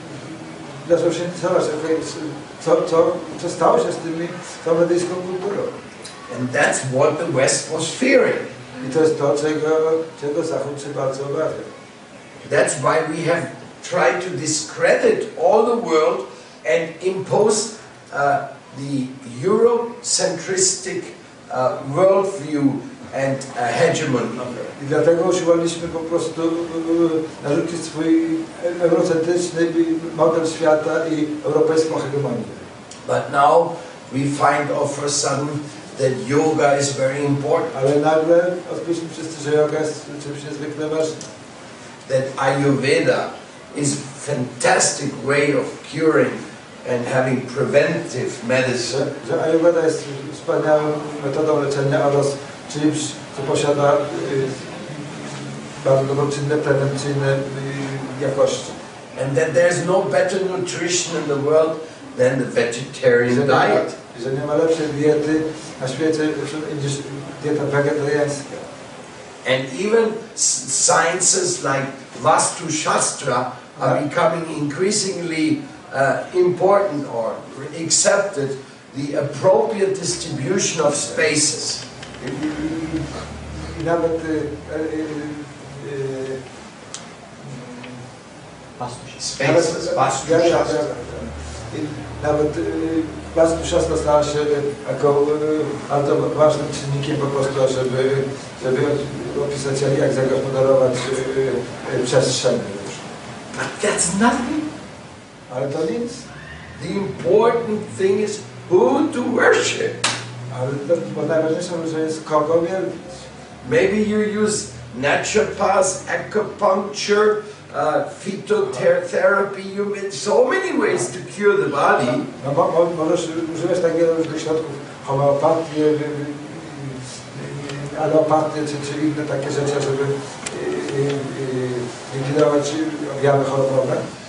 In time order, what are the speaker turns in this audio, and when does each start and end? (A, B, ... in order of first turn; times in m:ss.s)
0:00.6-0:05.8 A
0:06.3-0:08.5 B
0:08.8-0:11.7 A
0:12.4-0:24.7 B
0:24.7-0:32.6 A
0:33.0-0:37.7 B
0:37.7-0:41.3 A
0:42.0-0:49.0 B
0:48.8-0:58.7 A
0:59.1-1:03.9 B
1:03.2-1:08.6 A
1:09.4-1:21.8 B
1:22.2-1:26.4 A
1:27.4-1:28.0 A
1:28.8-1:30.8 B
1:29.4-1:43.1 A
1:43.5-1:44.7 B
1:45.5-1:46.2 A
1:46.7-1:50.0 B
1:50.5-1:53.2 A
1:53.6-2:02.3 B
2:02.4-2:14.0 A